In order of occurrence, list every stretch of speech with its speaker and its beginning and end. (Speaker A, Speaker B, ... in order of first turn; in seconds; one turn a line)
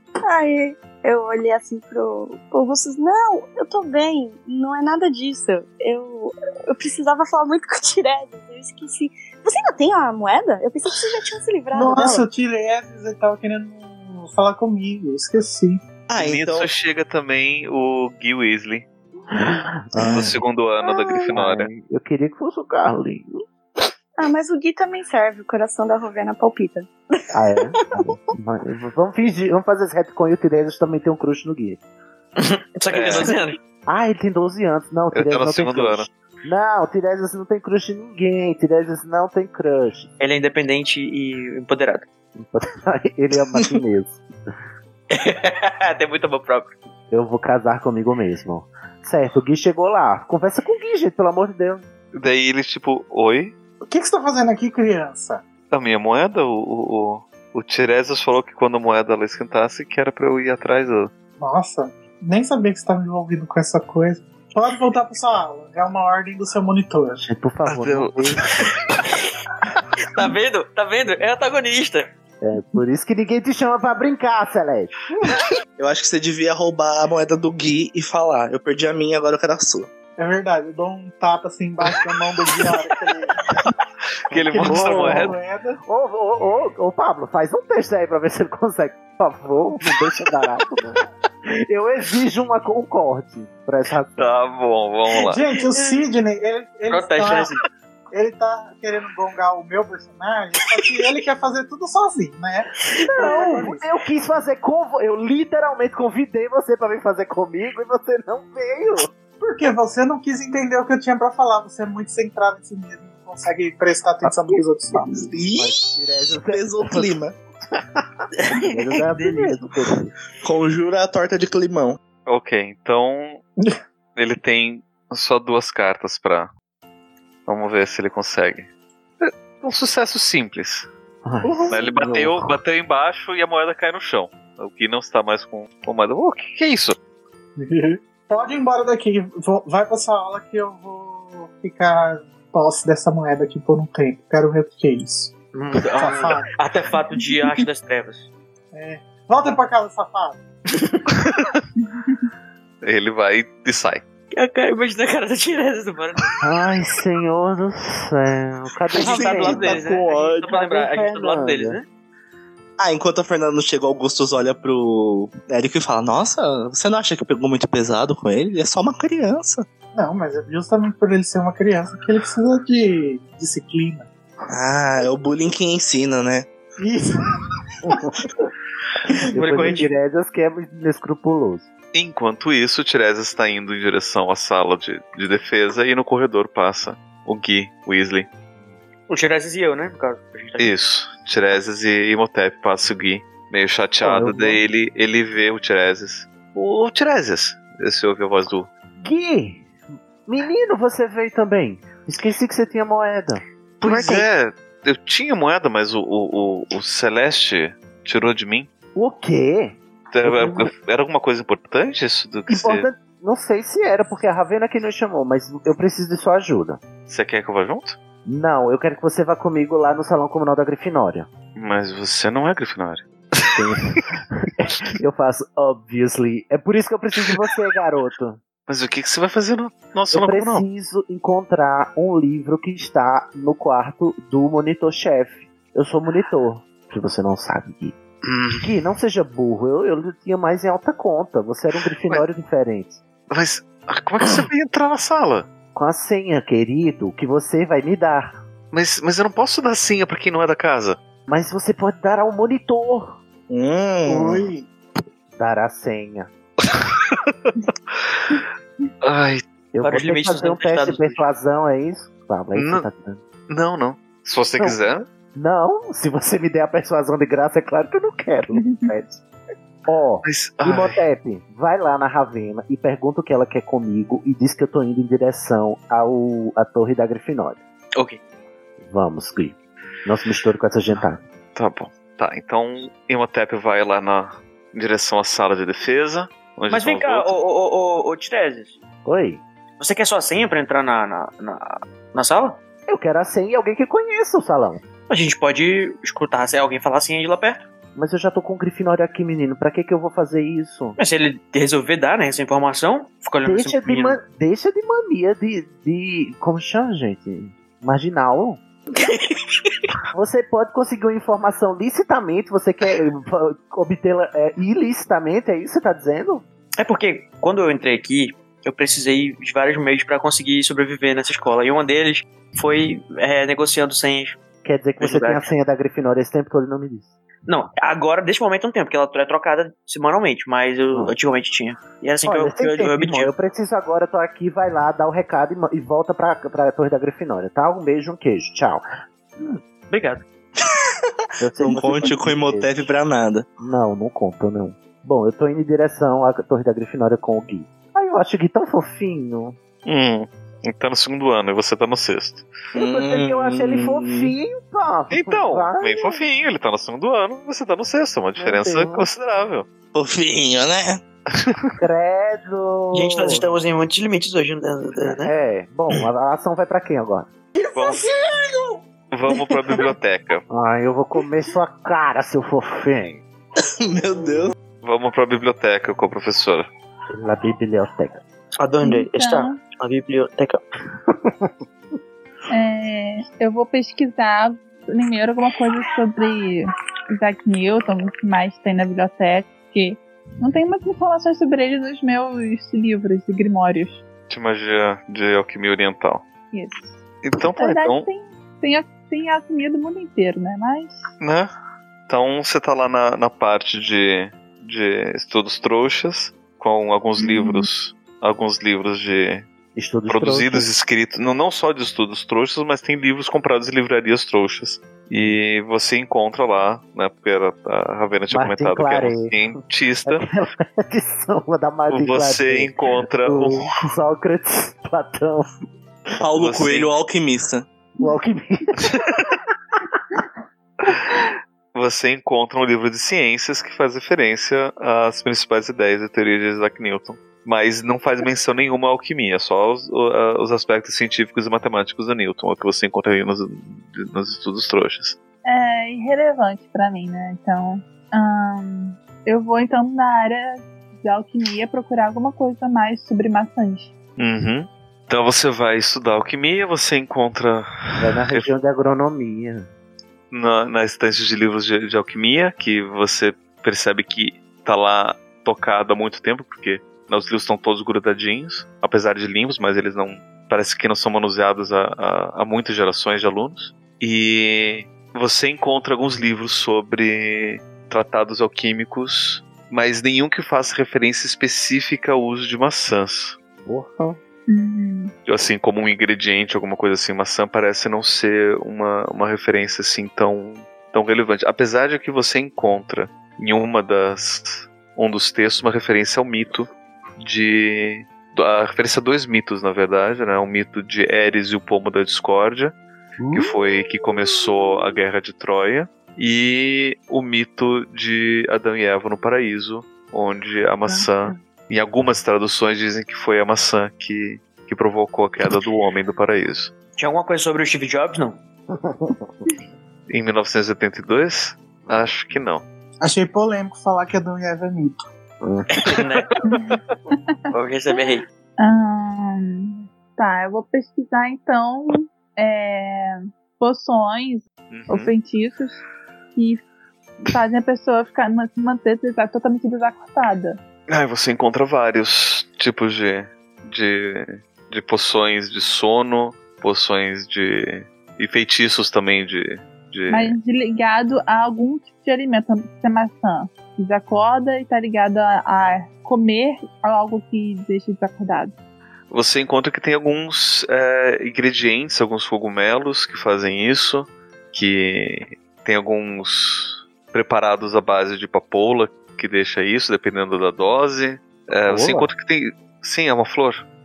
Speaker A: 0.2-12.3
Speaker B: 11.7-15.8
Speaker C: 16.1-16.7
Speaker D: 16.1-18.9
Speaker E: 19.4-20.3
Speaker D: 20.0-21.7
Speaker C: 20.0-20.3
Speaker A: 20.8-21.3
Speaker E: 21.3-23.4
Speaker A: 24.2-26.9
Speaker E: 27.3-31.8
Speaker F: 32.4-33.6
Speaker D: 32.9-33.3
Speaker E: 33.9-40.1
Speaker D: 35.1-36.1
Speaker F: 40.2-42.0
Speaker E: 42.4-44.2
Speaker F: 45.1-46.7
Speaker E: 47.1-51.8
Speaker D: 52.1-53.5
Speaker B: 53.9-55.4
Speaker D: 55.7-61.1
Speaker B: 61.4-67.2
Speaker E: 67.2-68.4
Speaker D: 67.7-68.7
Speaker F: 70.0-72.1
Speaker E: 72.4-74.9
Speaker C: 75.8-79.9
Speaker B: 80.2-83.4
Speaker D: 84.3-85.4
Speaker B: 84.3-85.8
Speaker E: 84.6-85.3
Speaker E: 85.8-91.0
Speaker E: 91.7-94.3
Speaker D: 94.2-95.4
Speaker B: 95.2-97.5
Speaker F: 96.9-97.6
Speaker B: 98.1-103.8
Speaker E: 103.1-109.1
Speaker F: 103.3-103.6
Speaker B: 109.4-115.3
Speaker C: 115.3-117.3
Speaker E: 115.5-117.1
Speaker E: 117.7-120.1
Speaker F: 118.5-119.7
Speaker C: 120.4-122.0
Speaker D: 122.3-123.4
Speaker D: 124.2-126.5
Speaker D: 127.5-128.7
Speaker D: 129.2-130.9
Speaker E: 131.2-132.6
Speaker D: 131.7-137.0
Speaker B: 137.6-145.3
Speaker F: 145.5-148.3
Speaker B: 145.9-146.5
Speaker B: 148.7-150.4
Speaker F: 150.8-151.0
Speaker D: 151.1-151.7
Speaker D: 152.8-154.0
Speaker F: 154.3-156.4
Speaker E: 156.4-159.9
Speaker F: 158.9-161.8
Speaker C: 159.0-160.6
Speaker E: 160.5-161.8
Speaker C: 162.8-169.7
Speaker B: 169.9-174.1
Speaker C: 174.5-176.5
Speaker B: 176.8-177.3
Speaker E: 177.8-178.1
Speaker E: 179.3-181.7
Speaker F: 179.3-179.9
Speaker D: 181.9-188.3
Speaker F: 189.1-190.7
Speaker D: 190.6-198.7
Speaker E: 194.0-194.6
Speaker E: 199.0-199.7
Speaker E: 200.3-203.4
Speaker A: 203.8-204.3
Speaker D: 203.8-208.7
Speaker E: 208.9-210.7
Speaker D: 210.1-212.9
Speaker E: 212.5-216.8
Speaker D: 217.1-218.0
Speaker E: 218.2-221.3
Speaker D: 221.6-224.0
Speaker E: 223.5-228.4
Speaker D: 228.7-230.7
Speaker E: 230.1-237.9
Speaker D: 238.2-238.7
Speaker E: 238.6-243.0
Speaker D: 243.3-245.5
Speaker E: 245.7-248.4
Speaker D: 248.7-251.0
Speaker E: 251.3-253.2
Speaker C: 253.5-254.5
Speaker B: 254.1-254.6
Speaker E: 255.4-256.3
Speaker D: 256.7-257.5
Speaker D: 258.1-258.4
Speaker D: 259.0-259.4
Speaker E: 259.7-263.2
Speaker F: 259.8-261.2
Speaker D: 262.6-262.9
Speaker D: 263.5-265.1
Speaker E: 265.3-269.2
Speaker G: 268.5-268.9
Speaker E: 269.9-277.6
Speaker D: 270.2-271.0
Speaker E: 278.8-281.2
Speaker D: 281.6-287.3
Speaker F: 286.7-288.8
Speaker E: 289.1-289.4
Speaker F: 289.8-292.6
Speaker E: 292.9-294.8
Speaker F: 295.1-297.6
Speaker E: 297.9-301.0
Speaker F: 301.0-304.2
Speaker E: 303.4-308.6
Speaker F: 308.9-309.8
Speaker E: 310.1-316.4
Speaker F: 316.8-324.4
Speaker E: 324.6-327.1
Speaker F: 325.0-325.5
Speaker F: 327.5-333.3
Speaker E: 332.3-338.8
Speaker F: 339.9-340.2
Speaker E: 341.4-342.7
Speaker C: 341.6-343.5
Speaker E: 343.6-349.6
Speaker D: 349.8-352.5
Speaker C: 352.7-354.3
Speaker E: 352.7-356.2
Speaker D: 355.1-359.7
Speaker E: 358.4-359.1
Speaker C: 359.9-361.0
Speaker E: 361.8-363.4
Speaker F: 362.9-365.3
Speaker E: 365.0-367.3
Speaker B: 367.6-368.8
Speaker D: 367.7-368.1
Speaker D: 369.1-370.4
Speaker E: 370.5-373.2
Speaker C: 373.8-374.6
Speaker D: 374.8-376.7
Speaker E: 377.1-378.2
Speaker F: 378.6-380.6
Speaker G: 378.8-379.6
Speaker E: 381.2-381.5
Speaker G: 382.5-394.0
Speaker D: 394.3-396.2
Speaker G: 396.5-397.0
Speaker D: 397.2-398.1
Speaker G: 397.6-401.0
Speaker D: 401.2-401.5
Speaker D: 402.1-409.5
Speaker G: 407.2-407.7
Speaker E: 409.7-410.7
Speaker D: 410.1-420.2
Speaker E: 418.3-425.5
Speaker D: 421.9-423.7
Speaker C: 426.2-427.7
Speaker D: 426.4-426.9
Speaker E: 428.0-428.9
Speaker D: 430.9-431.1
Speaker D: 431.7-445.2
Speaker G: 445.4-453.9
Speaker D: 454.2-458.5
Speaker E: 458.0-459.7
Speaker D: 460.3-483.4
Speaker E: 483.6-484.2
Speaker G: 484.5-485.1
Speaker D: 485.3-496.7
Speaker D: 497.2-502.8
Speaker E: 503.2-503.5
Speaker D: 503.3-516.7
Speaker F: 517.0-518.4
Speaker E: 518.8-519.2
Speaker D: 520.1-522.6
Speaker B: 523.0-525.0
Speaker E: 525.4-525.8
Speaker F: 525.7-526.4
Speaker G: 526.4-527.5
Speaker F: 527.5-528.2
Speaker G: 528.6-535.8
Speaker D: 534.7-535.1
Speaker G: 536.3-536.6
Speaker G: 537.3-540.6
Speaker D: 540.9-550.4
Speaker G: 550.1-558.5
Speaker D: 559.1-573.6
Speaker E: 571.7-572.1